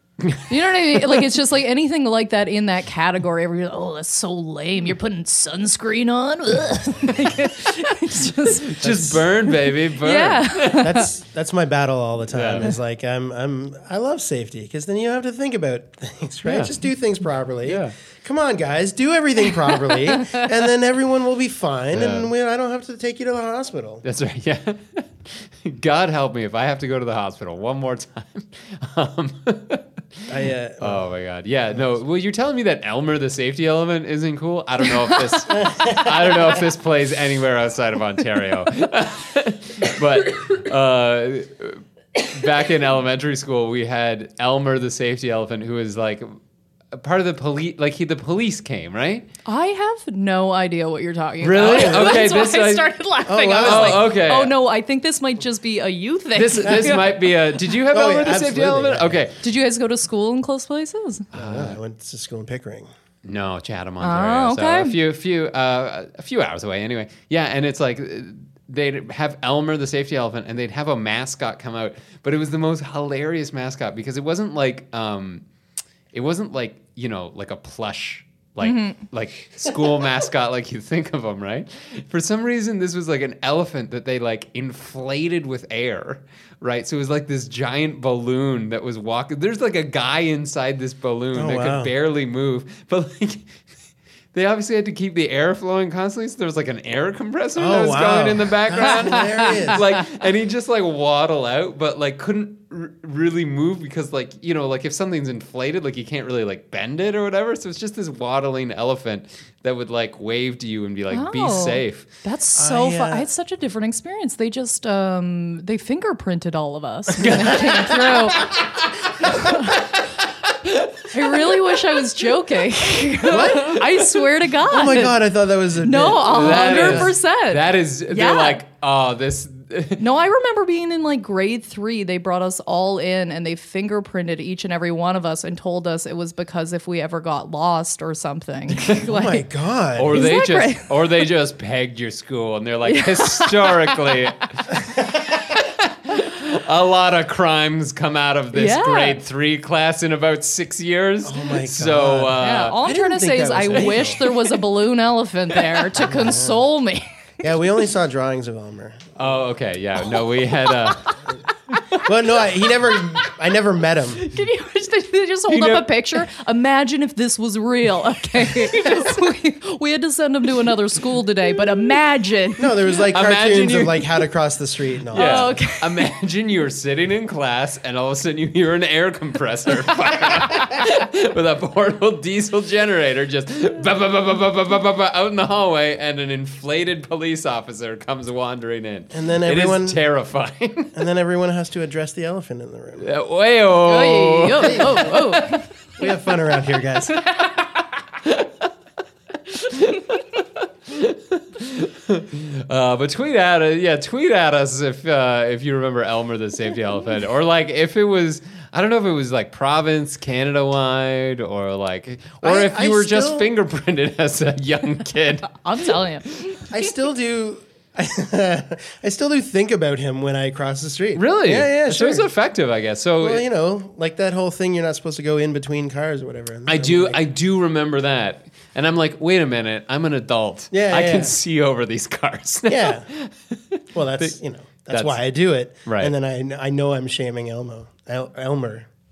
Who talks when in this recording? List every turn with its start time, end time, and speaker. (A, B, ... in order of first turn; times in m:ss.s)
0:00.2-0:00.5 A
0:00.5-0:08.8 B
0:08.7-0:10.9 A
0:08.8-0:09.3 C
0:10.0-0:11.1 B
0:10.8-0:24.0 C
0:12.3-0:12.7 A
0:16.5-0:16.8 A
0:17.6-0:17.9 A
0:21.9-0:22.3 A
0:24.0-0:46.3 A
0:30.3-0:31.0 C
0:46.9-0:49.3 A
0:49.5-0:57.2 B
0:51.4-0:53.0 A
0:51.6-0:52.2 C
0:53.3-0:54.1 C
0:53.6-0:54.6 A
0:56.4-0:59.4 A
0:56.6-0:57.0 C
0:57.9-0:59.2 C
0:59.4-1:01.3 B
1:01.3-1:01.8 A
1:01.3-1:02.9 C
1:03.2-1:15.4 A
1:04.0-1:05.0 B
1:16.1-1:33.6 A
1:18.6-1:19.0 B
1:31.3-1:31.9 C
1:34.3-1:52.1 A
1:37.6-1:39.8 C
1:39.1-1:39.6 B
1:51.1-1:58.5 B
1:52.6-1:53.2 C
1:57.2-2:00.0 A
1:59.2-1:59.8 B
2:00.6-2:01.1 A
2:01.1-2:05.2 B
2:03.3-2:03.8 C
2:03.8-2:04.0 A
2:04.7-2:07.1 C
2:05.8-2:08.6 B
2:06.2-2:10.0 A
2:10.0-2:19.4 B
2:19.0-2:20.3 C
2:20.0-2:32.8 A
2:20.1-2:20.9 B
2:22.9-2:24.1 B
2:28.5-2:29.2 B
2:31.2-2:34.3 C
2:32.4-2:37.1 B
2:36.0-2:36.6 C
2:37.4-2:39.1 C
2:39.2-2:41.1 A
2:40.8-2:41.1 B
2:41.7-2:42.1 B
2:42.0-2:44.3 C
2:44.2-2:52.7 B
2:45.5-2:45.9 A
2:52.6-2:55.6 C
2:53.1-2:54.2 A
2:55.1-3:10.9 A
2:55.1-2:56.0 B
3:09.1-3:10.0 C
3:10.9-3:13.1 C
3:13.0-3:15.6 A
3:13.8-3:15.6 B
3:14.7-3:15.1 C
3:16.0-3:17.2 C
3:18.2-3:18.5 A
3:19.5-3:35.6 A
3:32.4-3:33.5 C
3:35.6-3:36.7 B
3:36.7-3:42.3 C
3:41.2-3:43.4 A
3:43.2-3:47.2 C
3:46.7-3:54.3 A
3:50.7-3:51.4 C
3:52.7-3:53.1 C
3:53.9-3:58.9 C
3:54.9-3:55.2 A
3:55.8-3:56.1 A